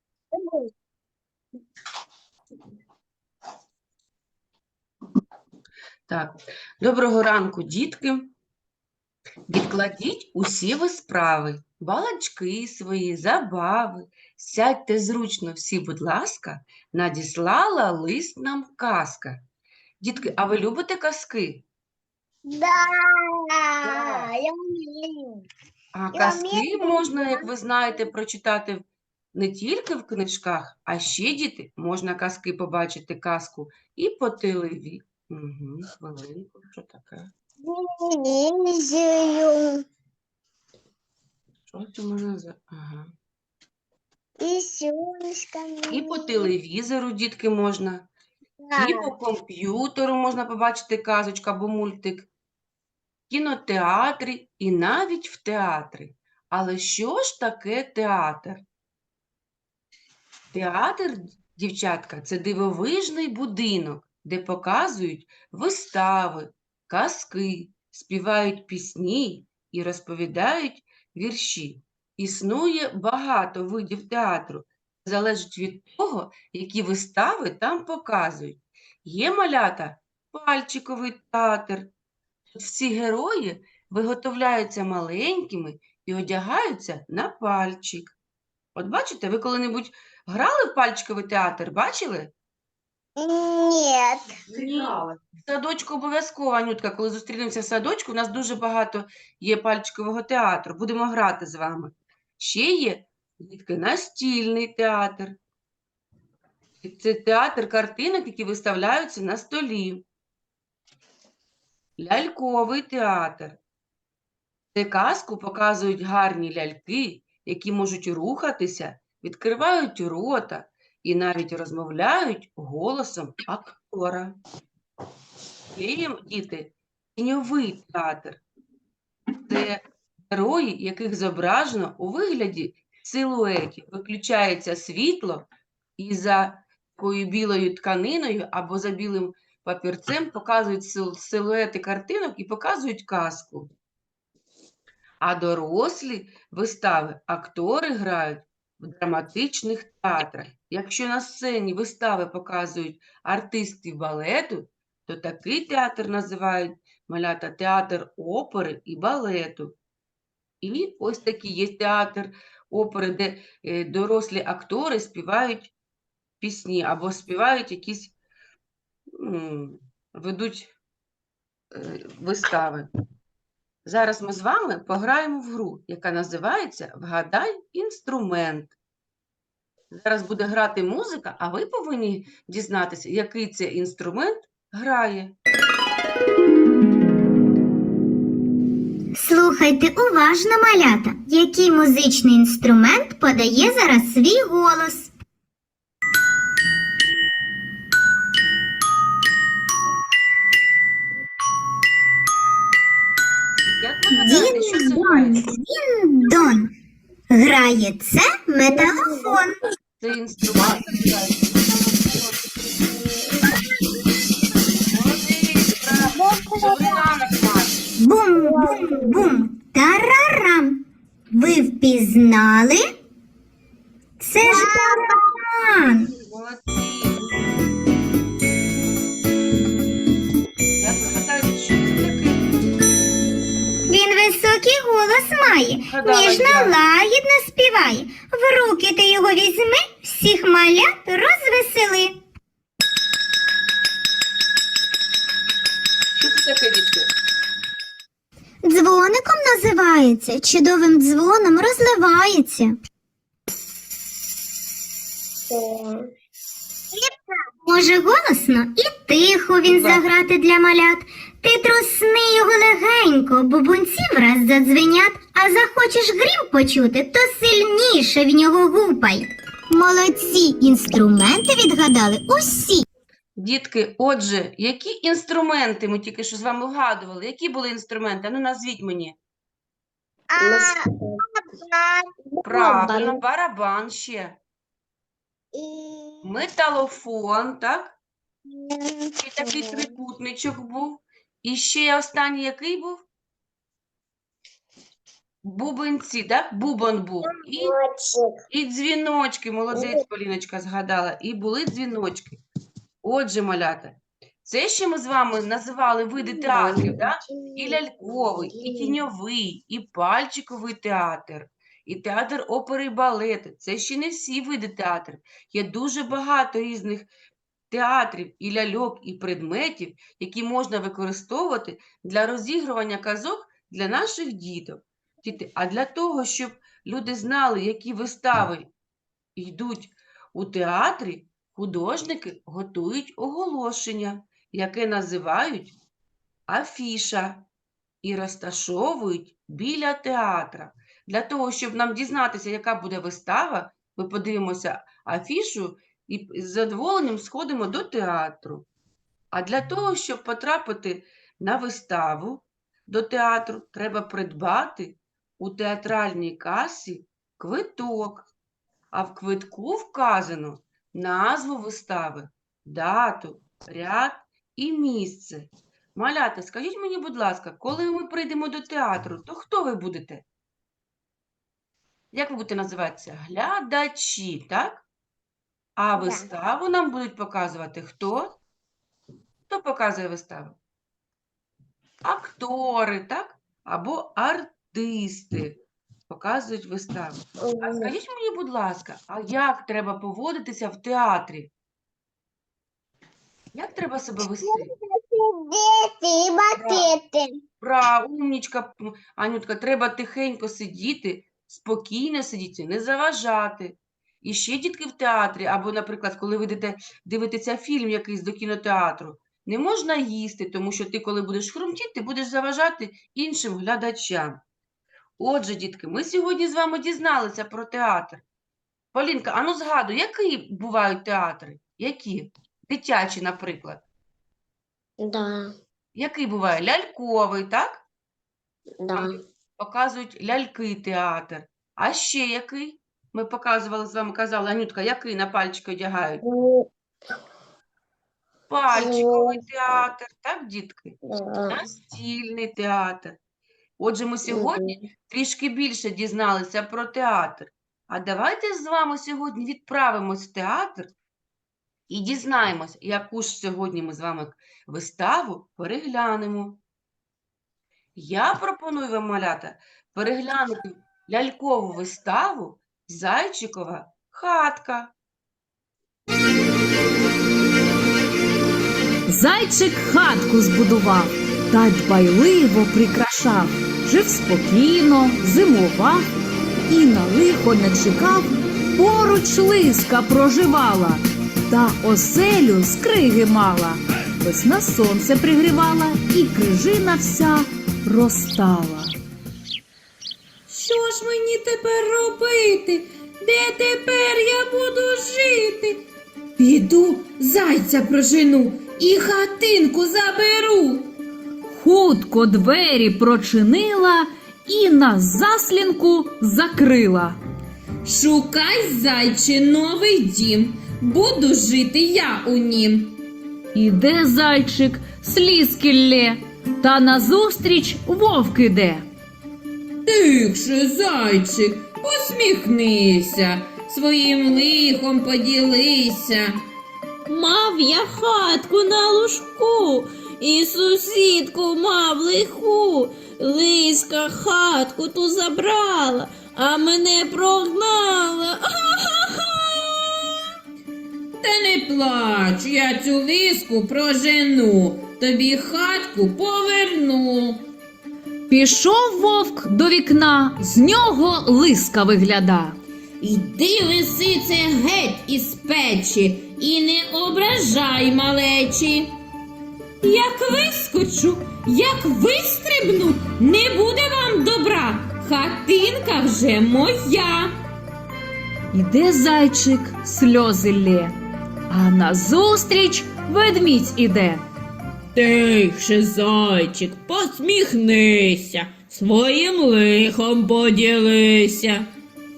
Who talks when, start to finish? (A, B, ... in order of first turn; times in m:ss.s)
0:00.3-0:00.6 A
0:06.1-0:08.3 B
0:09.5-0:19.4 B
0:20.0-0:21.6 B
0:22.4-0:25.4 A
0:23.8-0:24.3 B
0:25.9-0:37.3 B
0:26.1-0:27.4 A
0:37.6-0:39.8 A
0:41.7-0:43.1 B
0:44.4-0:46.5 A
0:45.9-0:48.1 B
0:48.6-0:49.0 A
0:48.8-0:52.3 B
0:53.3-0:58.6 B
1:00.5-1:21.9 B
1:22.5-1:28.1 B
1:28.8-1:32.3 B
1:33.2-1:34.4 A
1:34.5-1:45.4 B
1:46.8-1:50.0 B
1:52.0-1:53.6 B
1:54.7-2:04.4 B
2:05.7-2:08.4 B
2:09.4-2:15.4 B
2:16.0-2:23.7 B
2:25.2-2:39.8 B
2:40.6-2:45.7 B
2:46.4-2:48.1 B
2:49.2-2:50.7 B
2:51.7-2:52.9 B
2:53.8-2:58.7 B
2:59.9-3:05.3 B
3:09.1-3:15.1 C
3:23.8-3:25.4 B
3:24.1-3:26.7 C
3:27.3-3:29.6 C
3:28.8-3:29.3 A
3:30.0-3:32.6 B
3:34.6-3:37.8 B
3:36.2-3:37.0 A
3:38.0-3:40.8 C
3:38.4-3:39.0 A
3:41.3-3:42.8 C
3:44.2-3:46.1 C
3:44.4-3:45.2 A
3:46.0-3:47.5 B
3:50.8-3:52.5 B
3:53.9-4:02.1 C
3:55.9-3:56.8 B
4:06.1-4:07.1 B
4:08.6-4:12.7 C
4:15.5-4:16.0 A
4:17.6-4:32.8 C
4:33.4-4:39.2 B
4:40.3-4:43.2 A
4:42.4-4:44.4 B
4:45.5-4:46.2 A
4:46.2-4:48.0 B
4:48.5-4:49.9 A
4:49.2-4:53.0 B
4:55.4-4:57.7 B
4:57.2-4:58.3 A
4:58.5-5:02.4 B
5:03.0-5:17.1 B
5:06.3-5:09.0 A
5:17.7-5:28.7 B
5:29.4-5:35.8 B
5:36.5-5:37.4 B
5:38.0-5:48.7 B
5:49.3-5:58.3 B
5:58.9-6:10.2 B
6:12.1-6:14.8 B
6:15.8-6:18.4 B
6:16.0-6:16.2 A
6:19.5-6:20.6 B
6:22.0-6:25.6 B
6:26.1-6:31.5 B
6:27.4-6:27.9 A
6:33.5-6:34.7 B
6:34.4-6:37.3 A
6:36.5-6:36.9 B
6:37.6-6:54.4 B
6:55.2-6:58.2 B
6:58.9-7:03.8 B
7:05.0-7:05.5 A
7:05.9-7:07.8 B
7:08.8-7:09.1 A
7:08.9-7:16.2 B
7:16.2-7:16.7 A
7:18.5-7:20.9 B
7:18.7-7:19.4 A
7:21.1-7:21.6 A
7:21.5-7:23.2 B
7:23.8-7:30.9 B
7:24.3-7:24.7 A
7:31.9-7:36.6 B
7:38.0-7:44.9 B
7:49.1-7:56.1 D
7:56.7-8:08.9 D
8:10.5-8:15.8 E
8:16.4-8:20.9 E
8:21.5-8:27.2 D
8:27.8-8:33.0 E
8:33.5-8:38.8 D
8:39.8-8:46.4 E
8:47.1-9:00.1 E
9:01.2-9:07.4 E
9:08.3-9:12.6 D
9:13.0-9:18.9 E
9:19.8-9:27.3 E
9:28.5-9:31.0 D
9:31.5-9:34.2 D
9:34.9-9:41.7 E